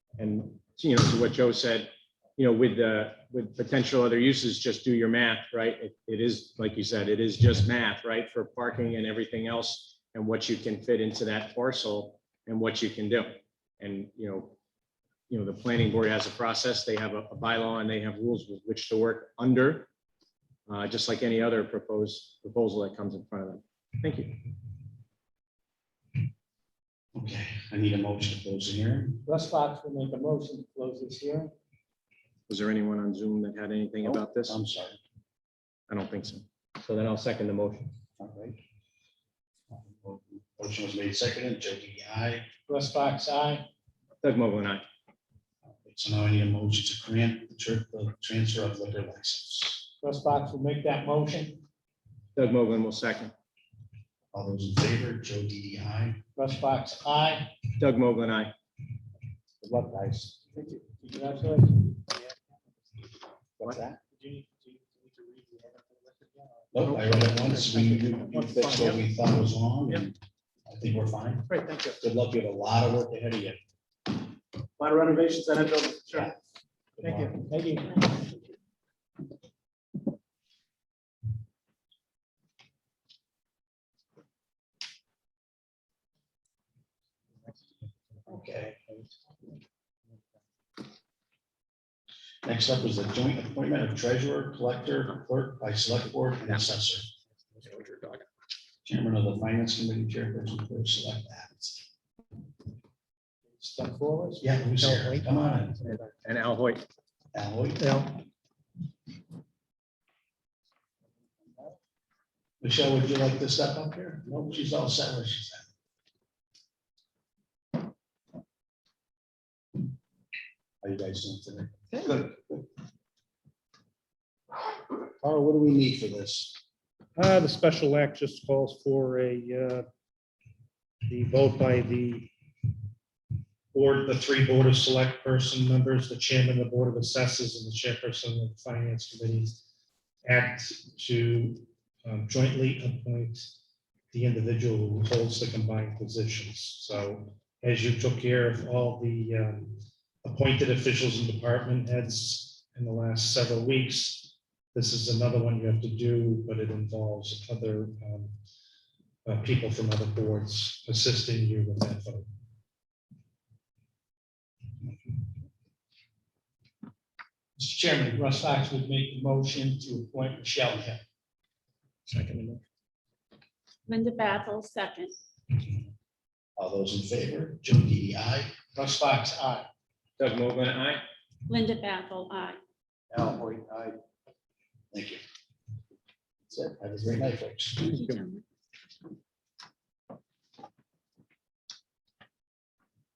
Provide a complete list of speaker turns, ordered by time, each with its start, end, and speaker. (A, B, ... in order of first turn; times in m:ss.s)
0:00.2-0:14.6 A
0:15.3-0:19.9 A
0:20.7-0:24.5 A
0:27.1-0:29.2 B
0:29.2-0:31.5 C
0:32.5-0:34.6 A
0:34.0-0:35.0 B
0:35.9-0:37.9 A
0:38.2-0:38.6 B
0:39.7-0:42.5 B
0:42.7-0:43.7 C
0:44.2-0:44.8 A
0:45.6-0:49.9 B
0:50.0-0:51.6 C
0:52.3-0:53.3 A
0:54.3-0:56.2 B
0:56.4-0:57.5 C
0:57.8-0:58.5 A
0:59.6-1:00.6 B
0:59.8-1:00.2 A
1:00.9-1:02.0 C
1:03.6-1:04.0 B
1:06.7-1:10.1 B
1:10.6-1:13.6 B
1:11.5-1:11.9 A
1:14.8-1:16.0 C
1:16.1-1:16.4 B
1:17.0-1:17.4 B
1:17.1-1:17.7 C
1:28.3-1:29.0 B
1:32.4-1:37.1 B
1:37.6-1:38.2 A
1:38.8-1:41.8 B
1:43.6-1:44.5 C
1:44.4-1:45.7 B
1:44.8-1:46.1 D
1:45.8-1:46.8 A
1:47.3-1:48.0 B
1:47.8-1:48.2 D
1:52.6-1:55.7 B
2:00.8-2:02.6 B
2:05.2-2:06.6 B
2:07.2-2:09.8 D
2:11.0-2:12.3 D
2:13.7-2:19.6 D
2:20.2-2:23.5 D
2:24.1-2:38.4 D
2:39.2-2:42.3 D
2:47.6-2:51.0 C
2:52.1-2:52.6 A
2:53.9-2:55.1 E
2:56.6-2:58.5 B
2:58.7-2:59.7 C
3:00.2-3:01.0 A
3:01.5-3:02.6 E
3:03.1-3:04.0 A
3:04.9-3:05.2 B
3:06.5-3:08.0 B
3:07.8-3:08.4 E